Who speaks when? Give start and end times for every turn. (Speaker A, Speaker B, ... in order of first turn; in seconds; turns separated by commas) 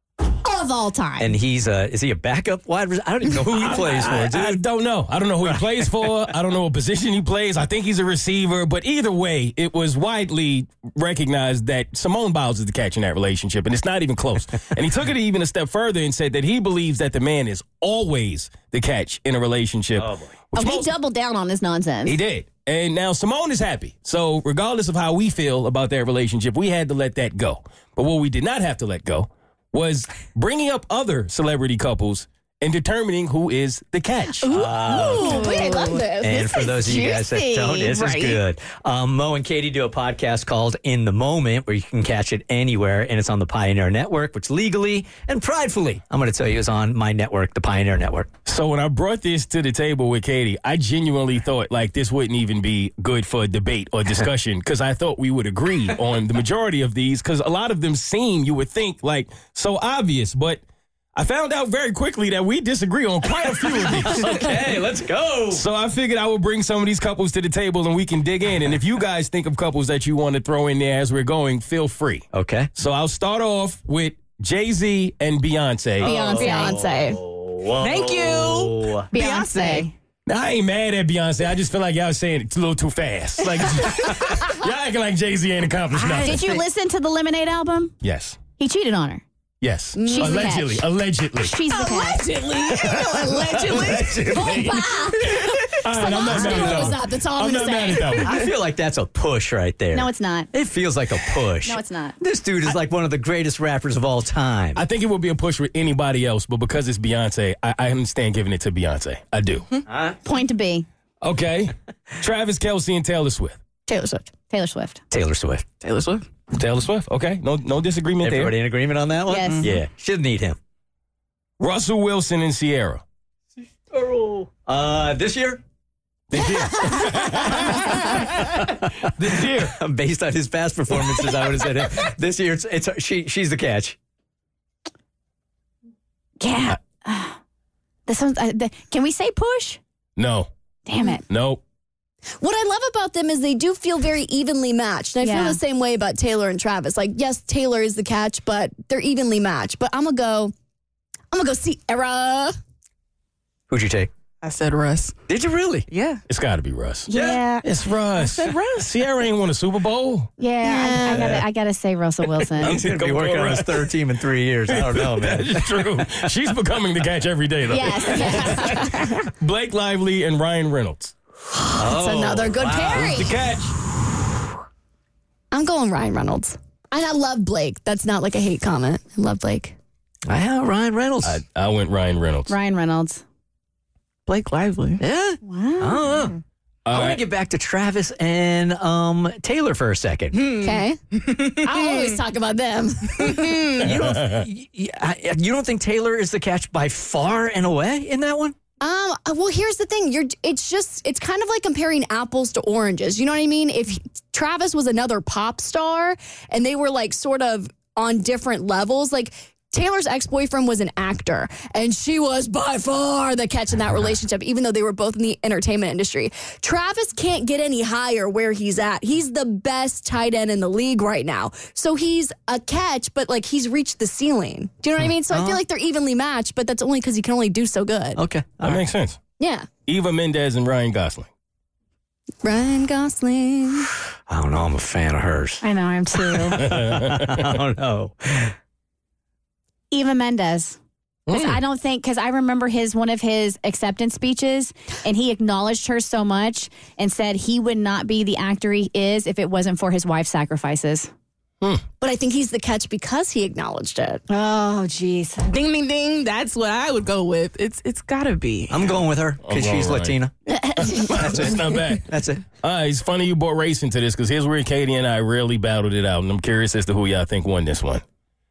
Speaker A: 0.4-1.3, Speaker B: 1.2-4.6, Speaker C: 3.5-20.9, Speaker B: 5.4-6.1, Speaker B: 20.0-20.3, Speaker A: 20.5-22.2, Speaker C: 22.0-34.6, Speaker D: 34.4-36.6, Speaker B: 34.5-35.5, Speaker A: 35.2-35.9, Speaker B: 36.2-48.3, Speaker E: 37.6-38.4, Speaker C: 48.5-60.6, Speaker C: 61.1-64.6, Speaker B: 63.8-65.6, Speaker C: 65.5-76.2, Speaker B: 72.3-72.7, Speaker B: 76.0-79.1, Speaker A: 76.0-76.8, Speaker D: 76.0-77.2, Speaker E: 77.8-79.9, Speaker A: 79.1-79.9, Speaker C: 80.3-86.5, Speaker B: 85.9-86.6, Speaker A: 86.2-87.9, Speaker C: 88.0-88.4, Speaker A: 88.6-89.2, Speaker C: 89.6-91.5, Speaker D: 89.9-90.5, Speaker A: 90.1-90.9, Speaker A: 91.4-92.2, Speaker E: 91.9-94.3, Speaker D: 91.9-92.5, Speaker C: 92.7-98.4, Speaker B: 93.4-94.8, Speaker A: 94.3-95.0, Speaker D: 94.4-95.0, Speaker D: 96.0-98.0, Speaker B: 96.3-97.0, Speaker B: 98.1-104.8, Speaker A: 99.9-100.5, Speaker A: 101.6-102.2, Speaker C: 104.7-109.7, Speaker B: 109.9-110.2, Speaker A: 110.2-110.8, Speaker C: 111.2-113.6, Speaker D: 113.9-114.2, Speaker A: 114.3-115.0, Speaker B: 115.1-115.6, Speaker E: 115.8-116.2, Speaker C: 116.5-118.6, Speaker B: 118.2-120.6, Speaker A: 119.3-119.7, Speaker C: 121.6-123.0, Speaker B: 123.9-125.6, Speaker C: 126.3-129.7, Speaker B: 127.5-127.8, Speaker B: 128.5-128.8, Speaker B: 129.4-133.9, Speaker A: 136.4-137.4, Speaker A: 138.1-139.8, Speaker C: 140.2-140.5, Speaker A: 140.8-141.2, Speaker C: 141.3-141.6, Speaker D: 142.4-150.5, Speaker A: 145.2-145.6, Speaker D: 151.3-152.5, Speaker B: 153.7-154.1, Speaker E: 154.4-155.1, Speaker B: 155.3-155.9, Speaker E: 155.9-156.2, Speaker C: 156.3-157.1, Speaker A: 157.1-157.6, Speaker B: 157.1-157.4, Speaker C: 157.6-160.3, Speaker E: 158.2-158.6, Speaker A: 160.4-162.8, Speaker B: 160.6-161.4, Speaker C: 162.5-163.9, Speaker B: 162.6-166.3, Speaker C: 164.7-171.1, Speaker A: 167.7-169.0, Speaker B: 168.0-168.6, Speaker D: 171.5-173.3, Speaker B: 171.8-173.4, Speaker C: 172.9-173.7, Speaker D: 175.5-179.7, Speaker B: 180.3-181.4, Speaker C: 181.2-182.5, Speaker A: 182.5-183.2, Speaker E: 184.3-185.0, Speaker B: 185.0-186.4, Speaker A: 185.4-186.3, Speaker C: 186.8-187.2, Speaker B: 186.9-190.5, Speaker E: 190.3-192.2, Speaker D: 190.4-193.7, Speaker E: 193.2-193.8, Speaker B: 193.7-198.5, Speaker C: 194.0-194.4, Speaker D: 198.8-228.2, Speaker B: 225.3-225.6, Speaker B: 228.2-228.8, Speaker C: 228.6-229.2, Speaker D: 229.4-229.7, Speaker C: 229.9-231.3, Speaker D: 232.4-233.9, Speaker B: 234.3-235.6, Speaker A: 235.6-236.6, Speaker B: 236.3-238.5, Speaker C: 236.6-237.5, Speaker A: 239.9-240.8, Speaker C: 241.3-241.6, Speaker A: 241.3-251.1, Speaker D: 252.0-254.2, Speaker A: 254.3-255.5, Speaker E: 255.4-258.9, Speaker B: 258.7-260.3, Speaker C: 259.4-260.2, Speaker A: 260.6-261.1, Speaker C: 260.7-262.1, Speaker B: 261.1-262.4, Speaker C: 262.6-268.0